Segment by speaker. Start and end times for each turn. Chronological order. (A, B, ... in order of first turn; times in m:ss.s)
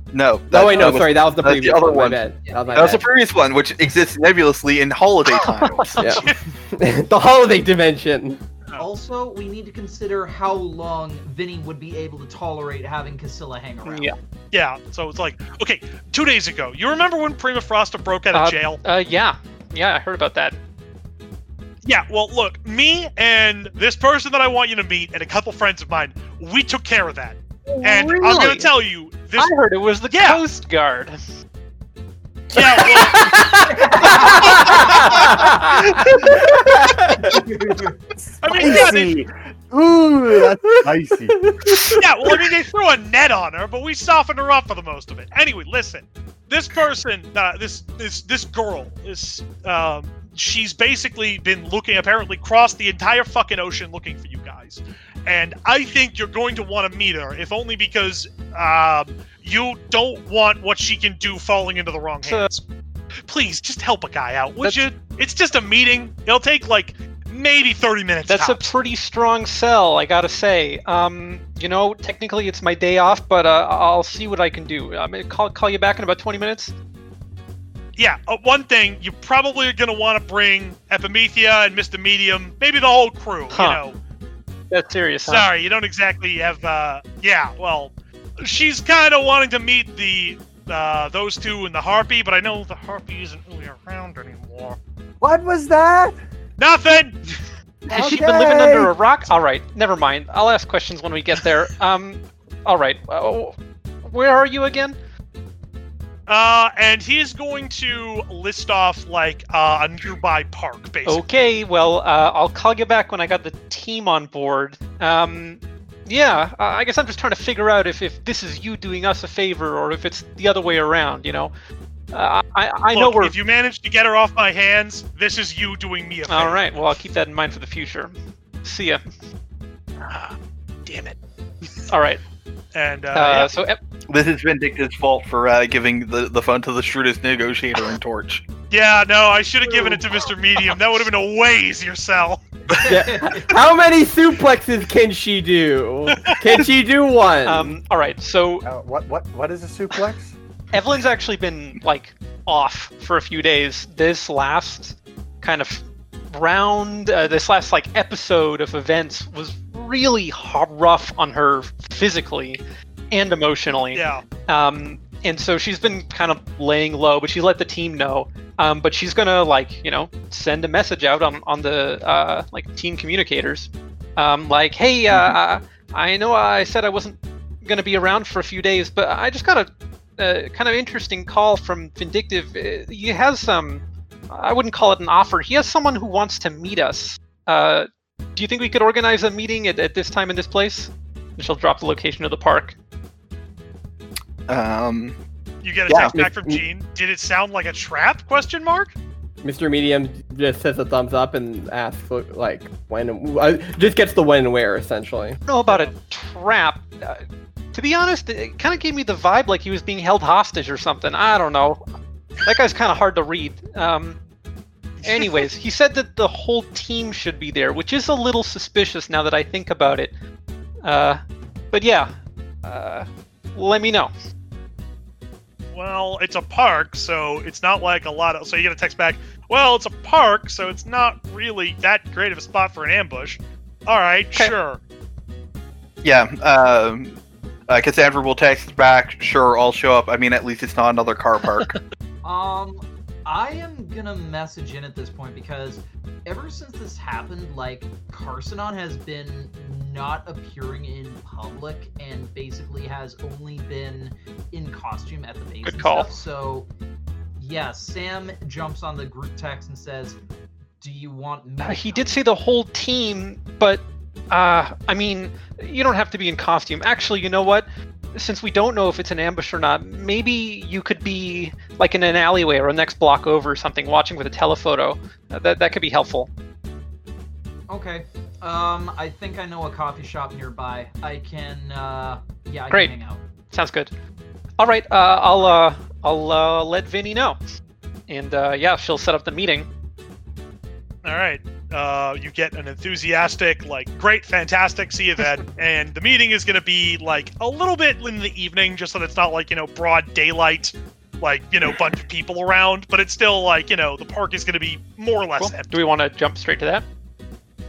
0:00.1-0:02.2 A
0:00.5-0:03.0 B
0:02.4-0:03.0 C
0:02.7-0:06.2 A
0:05.3-0:06.3 D
0:06.0-0:08.4 B
0:08.8-0:14.1 C
0:13.8-0:14.2 D
0:14.5-0:18.8 E
0:18.3-0:20.6 D
0:21.8-0:29.5 E
0:27.7-0:28.7 D
0:29.4-0:31.2 D
0:30.1-0:30.4 E
0:32.5-0:33.4 E
0:32.8-0:33.2 D
0:33.0-0:37.4 B
0:33.7-0:34.6 C
0:34.3-0:35.3 E
0:35.6-0:36.0 C
0:37.2-0:37.9 C
0:38.2-0:41.4 F
0:38.4-0:39.2 E
0:40.7-0:42.0 B
0:41.9-1:02.6 E
1:02.2-1:02.5 D
1:03.3-1:08.7 E
1:04.6-1:04.9 D
1:08.3-1:16.7 D
1:18.0-1:24.0 E
1:23.5-1:23.8 D
1:24.7-1:25.5 D
1:25.3-1:34.8 E
1:35.2-1:36.2 F
1:36.6-1:37.2 E
1:37.9-1:38.9 F
1:37.9-1:45.0 D
1:46.3-1:51.2 E
1:51.0-2:01.5 D
2:02.1-2:03.3 D
2:02.9-2:06.6 E
2:06.2-2:09.0 D
2:10.0-2:11.2 E
2:11.9-2:12.2 D
2:12.7-2:13.5 E
2:13.1-2:13.8 D
2:14.1-2:18.4 A
2:18.7-2:22.8 E
2:22.8-2:23.5 C
2:22.8-2:27.8 B
2:26.1-2:26.7 E
2:27.4-2:28.6 D
2:28.6-2:30.4 F
2:30.7-3:12.8 D
2:43.9-2:44.2 E
3:14.5-3:15.2 A
3:15.6-3:18.9 E
3:15.9-3:16.2 A
3:16.1-3:16.6 B
3:19.4-3:25.4 B
3:25.4-3:27.2 D
3:27.7-3:31.8 D
3:32.4-3:34.2 D
3:35.0-3:35.5 E
3:35.0-3:40.1 D
3:40.8-3:44.1 D
3:45.7-3:54.8 E
3:56.0-4:01.7 A
4:02.2-4:16.7 C
4:15.6-4:16.1 D
4:17.4-4:20.2 C
4:20.8-4:22.2 C
4:21.6-4:36.3 D
4:37.7-4:43.2 C
4:43.5-4:43.9 D
4:44.6-4:47.4 D
4:48.1-4:49.7 D
4:51.0-5:05.7 E
5:05.4-5:06.8 D